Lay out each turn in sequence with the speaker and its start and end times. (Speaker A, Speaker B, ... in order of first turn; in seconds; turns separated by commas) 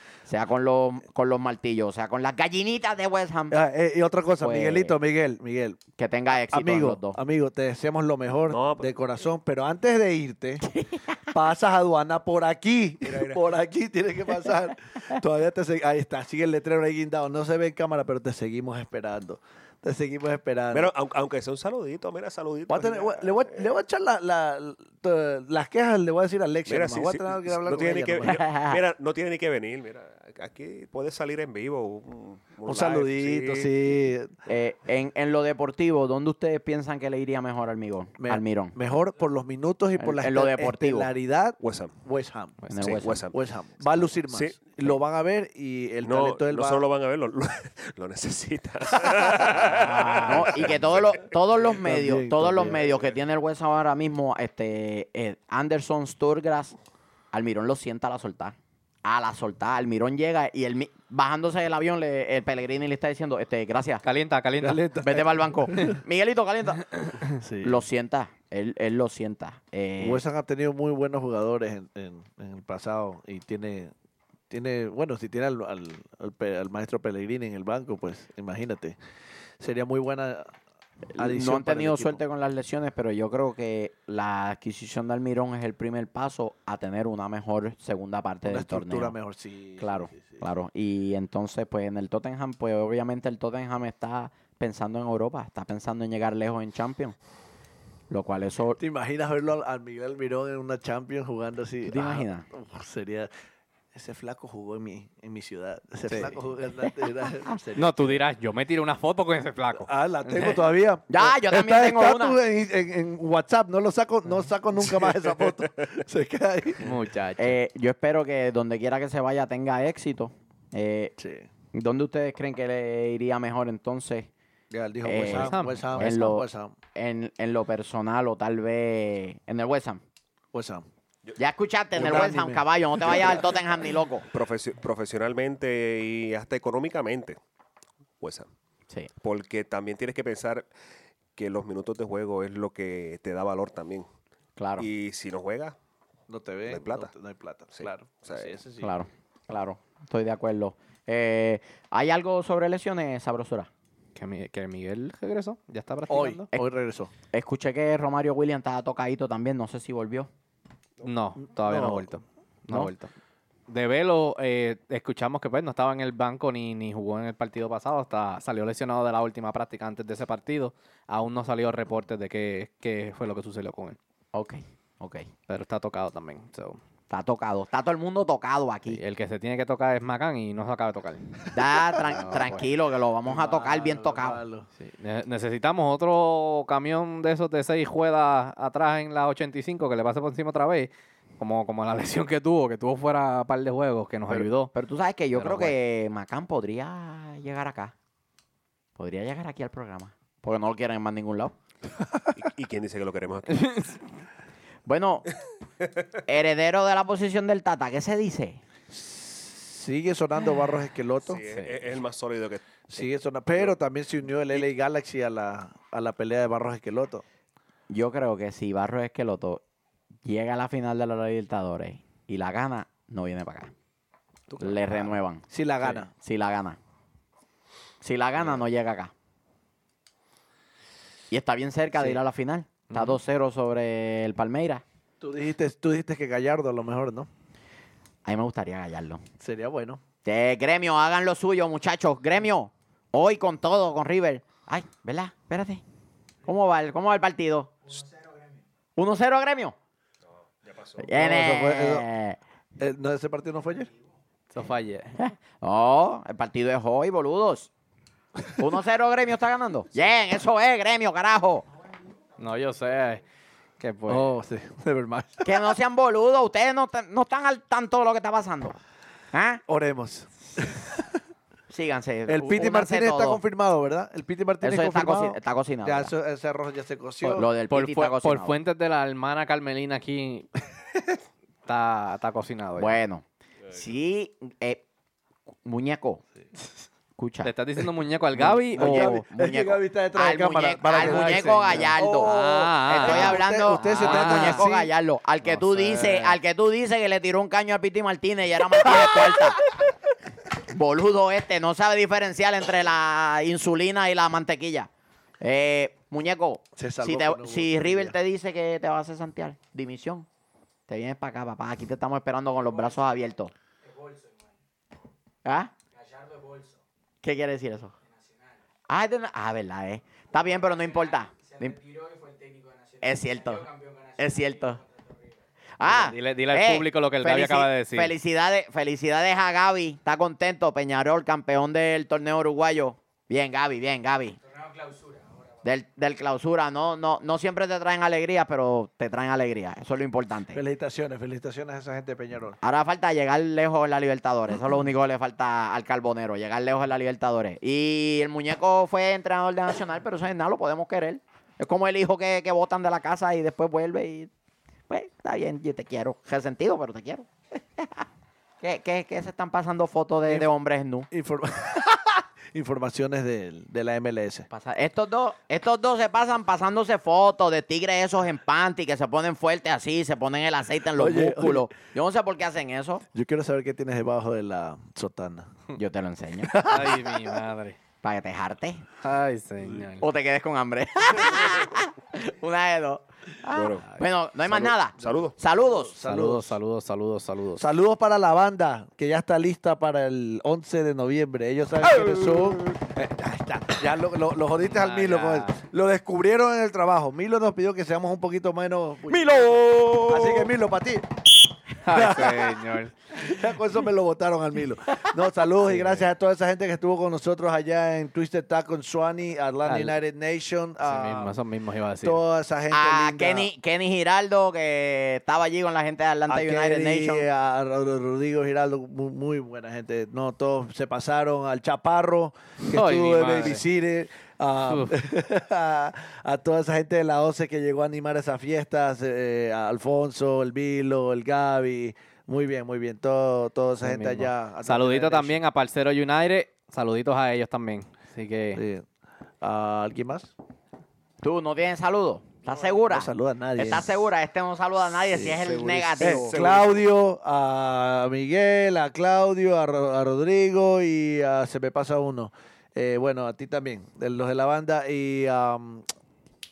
Speaker A: 0.3-3.6, Speaker B: 3.5-5.8, Speaker A: 4.4-5.0, Speaker A: 6.0-7.2, Speaker B: 6.4-10.7, Speaker C: 8.5-8.9, Speaker A: 10.7-11.0, Speaker B: 11.3-20.9, Speaker C: 13.0-13.4, Speaker C: 20.7-23.7, Speaker B: 22.7-28.4, Speaker C: 26.6-33.9, Speaker A: 28.2-28.8, Speaker B: 32.6-34.4, Speaker A: 34.5-38.8, Speaker B: 38.2-42.6, Speaker A: 40.0-41.1, Speaker C: 41.6-41.9, Speaker D: 42.6-42.9, Speaker A: 42.7-43.2, Speaker C: 42.8-44.6, Speaker B: 43.3-46.8, Speaker C: 46.0-51.2, Speaker B: 49.0-49.5, Speaker D: 49.7-50.6, Speaker A: 50.2-56.7, Speaker B: 51.8-52.9, Speaker A: 57.3-64.0, Speaker D: 64.0-64.8, Speaker B: 64.6-66.0, Speaker A: 65.0-70.2, Speaker B: 67.4-67.8, Speaker B: 70.0-73.9, Speaker B: 74.5-79.0, Speaker B: 79.6-80.5, Speaker A: 81.1-89.2, Speaker B: 81.2-82.2, Speaker B: 88.5-90.4, Speaker A: 89.8-97.2, Speaker A: 98.1-98.8, Speaker B: 98.8-103.3, Speaker A: 101.8-102.5, Speaker B: 103.9-108.2, Speaker D: 106.1-106.3, Speaker D: 107.8-110.6, Speaker B: 109.8-116.9, Speaker A: 111.1-112.4, Speaker D: 116.8-117.5, Speaker A: 117.4-121.1, Speaker B: 121.2-121.5, Speaker A: 121.7-124.3, Speaker B: 124.7-126.7, Speaker A: 125.0-130.0, Speaker D: 125.3-126.2, Speaker B: 130.5-130.8, Speaker A: 131.4-134.2, Speaker B: 131.9-133.4, Speaker C: 134.3-137.4, Speaker C: 138.2-138.5, Speaker C: 139.2-140.7, Speaker C: 141.3-144.1, Speaker A: 144.6-144.9, Speaker C: 144.8-145.8, Speaker B: 146.3-148.9, Speaker C: 146.7-147.1, Speaker C: 147.7-148.6, Speaker A: 148.8-153.7, Speaker D: 154.2-156.5, Speaker B: 156.1-157.1, Speaker A: 157.3-160.3, Speaker D: 161.0-163.1, Speaker B: 161.4-162.1, Speaker D: 163.7-174.0, Speaker A: 174.3-175.3, Speaker D: 175.5-176.8, Speaker A: 177.1-179.0, Speaker D: 178.9-182.6, Speaker A: 181.5-184.4, Speaker B: 182.2-182.4, Speaker B: 183.2-184.7, Speaker D: 184.8-194.7, Speaker A: 194.3-197.9, Speaker D: 195.3-195.8, Speaker A: 198.9-201.5, Speaker C: 202.3-203.8, Speaker D: 203.6-203.9, Speaker A: 204.8-205.3, Speaker A: 206.3-208.6, Speaker B: 208.9-211.4, Speaker C: 211.2-213.0, Speaker D: 211.5-211.9, Speaker B: 212.9-217.2, Speaker A: 217.9-219.6, Speaker A: 220.2-223.7, Speaker C: 224.5-225.1, Speaker A: 224.6-226.8, Speaker B: 225.5-226.1, Speaker A: 228.0-229.1, Speaker A: 231.3-234.8, Speaker D: 232.9-233.2, Speaker B: 235.2-237.3, Speaker A: 238.2-239.2, Speaker B: 239.4-240.0, Speaker A: 240.2-245.8, Speaker A: 246.4-247.7, Speaker E: 247.8-248.6, Speaker A: 248.9-249.8, Speaker C: 250.6-251.1, Speaker A: 251.0-252.4, Speaker B: 251.1-252.1, Speaker B: 252.8-253.9, Speaker E: 253.7-254.0, Speaker D: 254.5-255.2, Speaker A: 255.2-257.7, Speaker A: 258.6-261.7, Speaker D: 262.4-263.2, Speaker E: 262.4-263.2, Speaker D: 263.8-264.3, Speaker B: 264.1-265.6, Speaker A: 265.4-268.8, Speaker A: 269.3-269.6, Speaker B: 269.7-271.0, Speaker A: 271.7-273.4, Speaker B: 272.3-277.5, Speaker A: 274.6-276.1, Speaker A: 277.2-278.6, Speaker D: 277.7-280.6, Speaker D: 281.6-283.0, Speaker A: 282.8-284.8, Speaker A: 285.6-286.2, Speaker A: 287.2-287.5, Speaker D: 287.4-289.2, Speaker A: 288.4-299.6, Speaker B: 288.4-294.9, Speaker D: 291.0-294.8, Speaker D: 295.4-296.3, Speaker B: 296.0-296.3, Speaker A: 300.7-304.9, Speaker A: 305.4-310.3, Speaker B: 306.8-308.1, Speaker A: 310.9-313.5, Speaker E: 312.5-314.6, Speaker A: 315.4-315.7, Speaker E: 315.9-316.8, Speaker A: 317.2-317.9, Speaker E: 318.0-318.6, Speaker A: 318.9-321.8, Speaker E: 320.3-325.4, Speaker A: 323.0-323.7, Speaker A: 324.2-324.8, Speaker A: 325.8-334.4, Speaker D: 325.8-328.1, Speaker E: 334.4-335.7, Speaker A: 335.6-340.6, Speaker B: 340.5-342.6, Speaker A: 342.6-354.3, Speaker A: 354.9-358.0, Speaker A: 358.6-361.1, Speaker B: 361.1-364.5, Speaker A: 364.5-373.0, Speaker B: 370.9-371.7, Speaker B: 373.1-375.5, Speaker A: 375.7-376.6, Speaker B: 376.4-377.2, Speaker D: 376.6-377.8, Speaker A: 378.0-378.8, Speaker D: 379.0-380.0, Speaker A: 380.0-386.0, Speaker C: 383.5-383.9, Speaker C: 384.5-385.4, Speaker B: 385.6-386.5, Speaker D: 386.0-387.7, Speaker B: 387.6-401.1, Speaker D: 394.7-395.6, Speaker A: 399.1-400.5, Speaker D: 401.8-403.1, Speaker B: 401.9-402.6, Speaker B: 403.1-411.3, Speaker D: 405.6-406.1, Speaker D: 409.6-409.9, Speaker D: 410.8-412.2, Speaker B: 412.0-413.5, Speaker A: 412.7-417.3, Speaker B: 416.3-435.4, Speaker D: 422.6-423.6, Speaker D: 424.6-424.9, Speaker D: 433.8-438.6, Speaker B: 438.5-438.9, Speaker B: 439.4-440.3, Speaker A: 441.2-446.4, Speaker B: 442.6-443.9, Speaker B: 445.1-455.9, Speaker C: 445.2-446.9